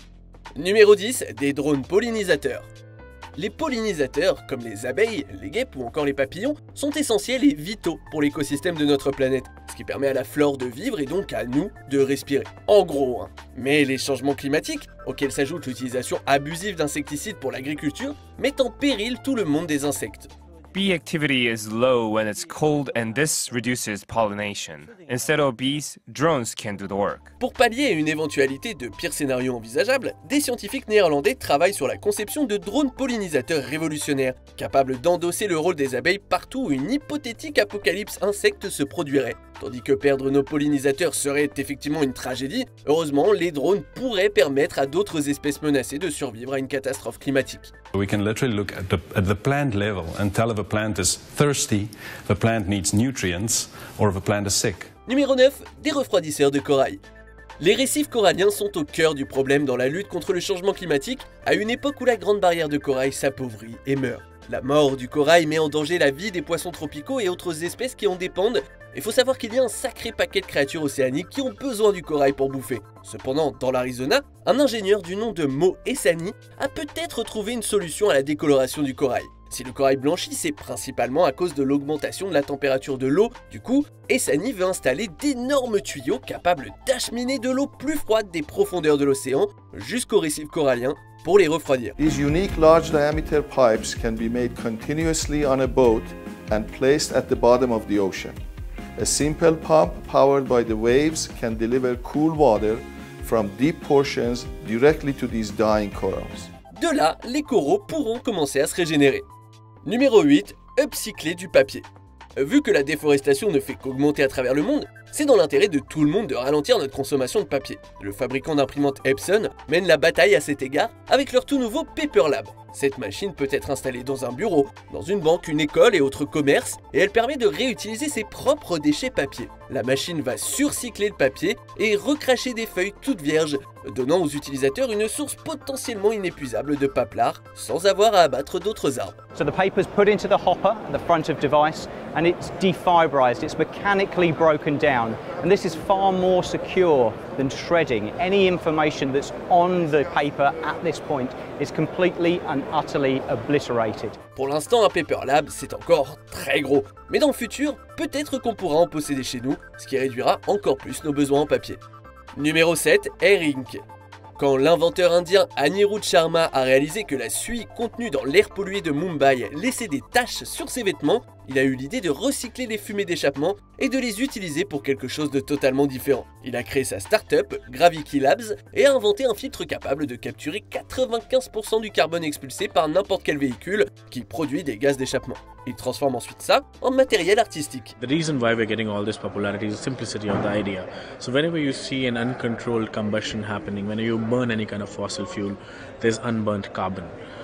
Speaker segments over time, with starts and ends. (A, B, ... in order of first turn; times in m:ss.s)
0:00.6-0:02.7 A
0:03.4-0:20.3 A
0:20.7-0:27.3 B
0:27.4-0:47.7 A
0:47.9-0:54.9 C
0:55.1-0:57.0 A
0:57.6-1:32.0 A
1:32.0-1:38.4 D
1:39.0-1:46.5 D
1:46.7-1:49.2 A
1:49.8-1:51.8 A
1:52.4-2:19.2 A
2:19.3-2:34.2 E
2:34.4-2:41.8 A
2:42.4-2:43.8 A
2:44.4-3:07.9 A
3:08.0-3:17.1 F